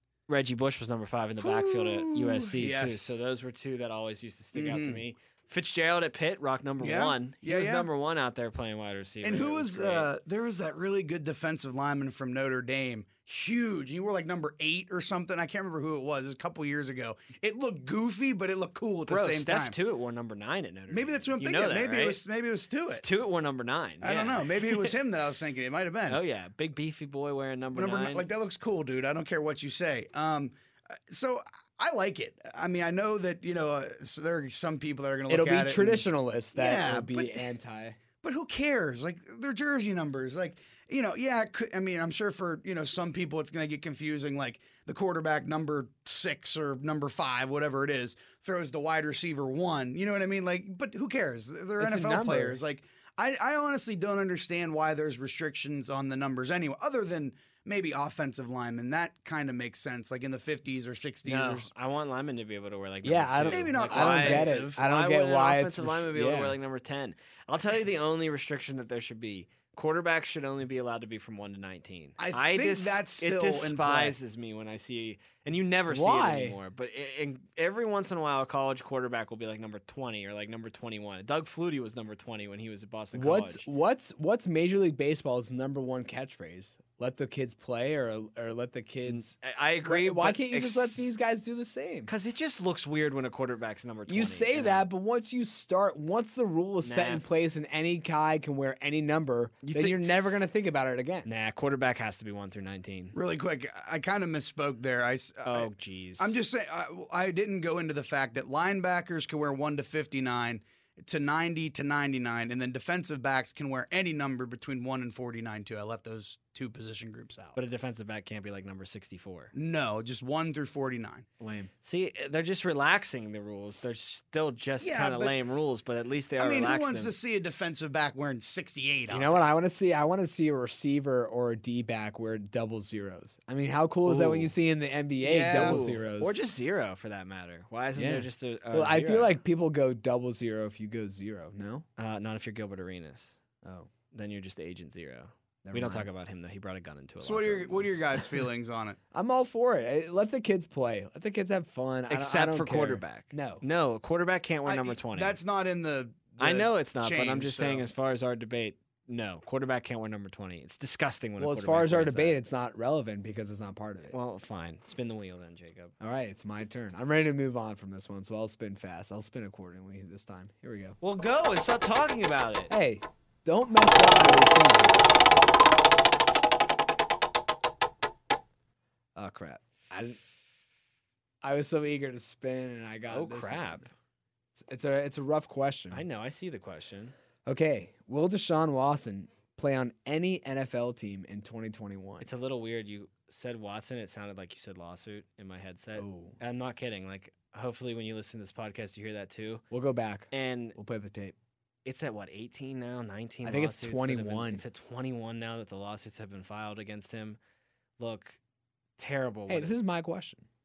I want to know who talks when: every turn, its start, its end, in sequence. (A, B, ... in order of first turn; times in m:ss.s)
0:00.3-0:10.1 A
0:01.4-0:03.1 B
0:04.5-0:05.0 B
0:06.8-0:07.9 B
0:09.2-0:19.8 B
0:19.1-0:22.2 A
0:20.9-0:23.0 B
0:22.9-0:25.0 A
0:24.0-0:26.2 B
0:26.1-0:28.3 A
0:27.7-0:37.5 B
0:35.3-0:38.0 C
0:38.2-1:01.7 B
0:51.8-0:52.6 C
1:01.2-1:23.7 A
1:03.0-1:06.6 C
1:03.5-1:04.8 B
1:12.2-1:14.2 B
1:15.9-1:16.6 C
1:23.1-1:29.3 C
1:29.0-1:31.1 A
1:29.8-1:32.1 C
1:32.1-1:34.9 A
1:34.1-1:41.3 C
1:36.8-1:37.2 A
1:39.6-1:40.0 A
1:41.2-1:43.1 A
1:43.1-1:57.6 B
1:45.4-1:46.4 A
1:57.6-1:59.5 A
1:59.5-2:01.2 B
2:01.4-2:01.7 C
2:01.8-2:07.1 A
2:04.8-2:05.4 B
2:06.4-2:09.4 B
2:09.1-2:16.3 C
2:14.0-2:14.5 A
2:15.2-2:19.3 A
2:15.5-2:15.8 B
2:18.0-2:21.8 C
2:22.0-2:23.4 A
2:23.6-2:23.9 C
2:24.1-2:28.0 A
2:25.6-2:26.0 C
2:27.2-2:29.0 B
2:29.1-2:33.6 C
2:32.1-2:35.4 A
2:34.6-2:37.8 B
2:36.4-2:42.4 A
2:41.4-2:44.2 C
2:44.1-2:45.9 A
2:46.0-2:51.0 C
2:51.0-2:52.7 A
2:52.7-2:55.1 C
2:59.2-3:00.2 C
3:01.4-3:03.8 C
3:03.1-3:03.9 A
3:04.5-3:06.0 C
3:05.9-3:07.1 A
3:07.4-3:12.3 C
3:12.2-3:19.6 A
3:16.0-3:16.4 C
3:19.7-3:21.3 C
3:20.3-3:20.8 A
3:21.8-3:27.4 A
3:23.4-3:24.6 C
3:28.0-3:28.4 A
3:29.0-3:29.7 A
3:29.5-3:30.4 C